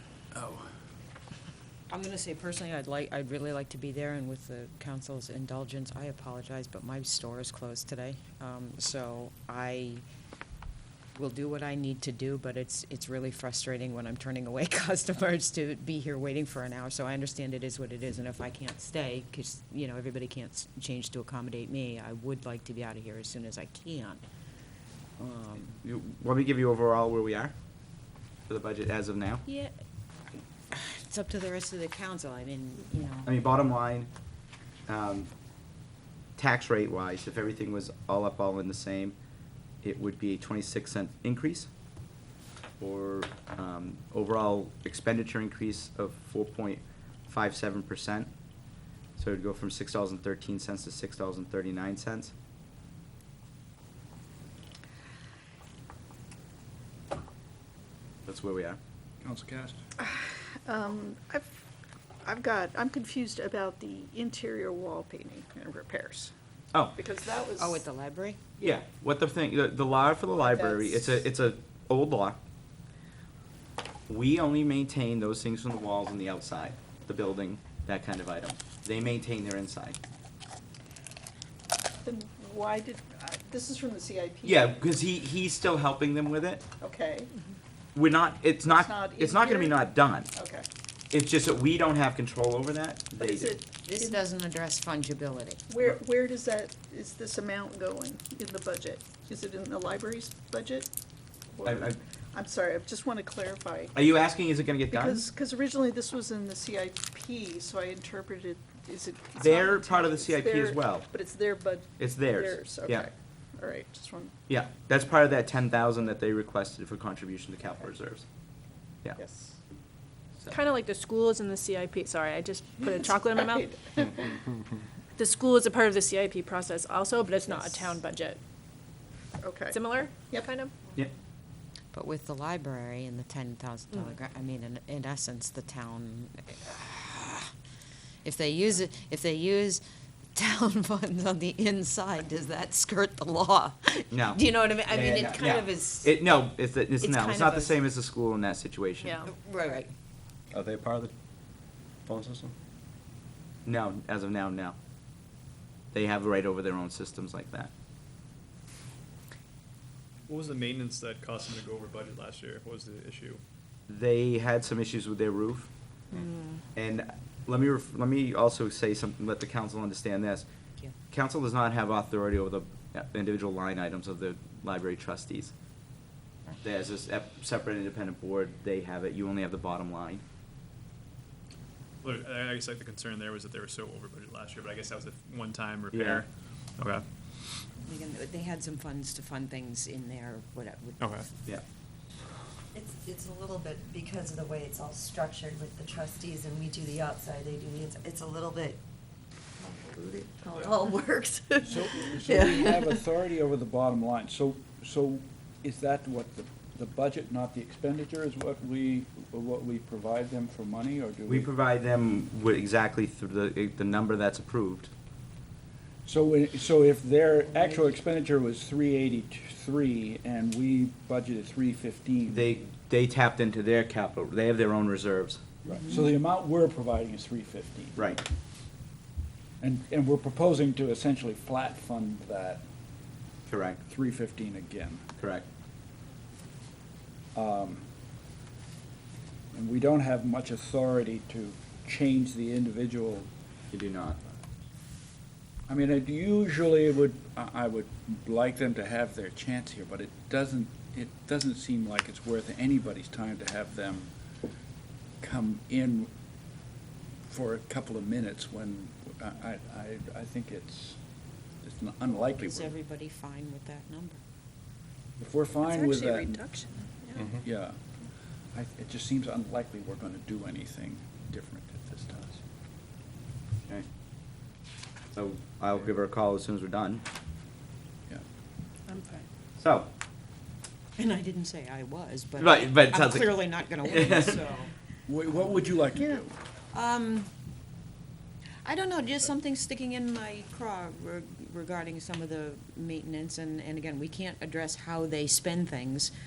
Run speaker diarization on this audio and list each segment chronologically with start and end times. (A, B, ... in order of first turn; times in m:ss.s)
0:00.3-0:00.7 A
0:01.9-0:10.0 B
0:11.1-0:24.2 B
0:25.2-0:25.8 B
0:25.7-0:27.5 C
0:28.5-0:29.4 C
0:30.7-0:33.3 B
0:33.2-0:34.1 C
0:34.9-0:35.3 C
0:36.4-0:39.2 C
0:39.8-0:41.7 C
0:42.8-0:48.3 C
0:49.2-0:52.3 C
0:58.2-0:58.8 C
0:59.2-0:59.8 A
1:00.0-1:01.6 D
1:02.2-1:06.3 D
1:06.9-1:07.8 D
1:07.6-1:08.4 B
1:08.6-1:12.4 C
1:10.5-1:11.0 D
1:14.1-1:20.0 C
1:22.0-1:24.6 D
1:24.4-1:26.6 C
1:26.8-1:27.3 D
1:27.9-1:30.3 C
1:28.7-1:29.7 D
1:30.3-1:30.6 D
1:31.1-1:33.6 C
1:33.2-1:34.2 D
1:33.8-1:35.6 B
1:35.7-1:40.9 D
1:41.5-1:44.0 D
1:41.6-1:42.0 C
1:43.9-1:45.2 C
1:44.9-1:54.3 D
1:49.4-1:51.1 C
1:52.0-1:53.1 C
1:54.5-1:58.2 C
1:59.2-1:59.6 D
2:00.5-2:03.7 E
2:02.9-2:04.3 D
2:05.2-2:08.4 E
2:07.5-2:07.9 B
2:09.4-2:09.8 D
2:09.7-2:10.7 E
2:11.9-2:17.5 B
2:18.2-2:19.8 B
2:20.3-2:26.2 B
2:24.1-2:29.2 C
2:27.0-2:27.8 B
2:29.0-2:29.3 E
2:29.2-2:29.9 B
2:30.5-2:31.1 C
2:32.0-2:32.5 C
2:33.6-2:34.8 C
2:35.9-2:37.7 C
2:40.3-2:43.4 F
2:43.9-2:45.7 C
2:46.7-2:50.4 C
2:51.1-2:55.5 C
2:56.6-3:00.2 C
3:02.0-3:07.0 F
3:05.9-3:06.2 C
3:07.8-3:11.1 B
3:11.0-3:11.3 F
3:12.7-3:18.8 G
3:19.6-3:22.8 G
3:21.6-3:31.5 A
3:31.3-3:34.9 C
3:36.0-3:42.4 A
3:42.3-3:45.4 C
3:45.6-3:48.1 A
3:48.0-3:48.2 C
3:49.6-3:52.6 A
3:53.5-3:53.8 C
3:53.8-3:55.0 A
3:55.2-3:55.5 C
3:57.3-3:57.9 A
3:59.5-4:03.3 A
4:03.7-4:04.2 C
4:05.7-4:14.1 A
4:15.2-4:16.1 A
4:17.3-4:21.0 A
4:21.6-4:22.7 A
4:22.4-4:24.2 B
4:25.2-4:26.4 A
4:25.6-4:27.1 E
4:27.3-4:27.8 A
4:28.5-4:32.4 A
4:35.1-4:37.0 C
4:38.9-4:39.2 E
4:39.6-4:39.9 C
4:41.0-4:44.7 B
4:42.4-4:44.3 C
4:45.1-4:46.3 A
4:46.7-4:47.3 B
4:48.6-4:56.1 B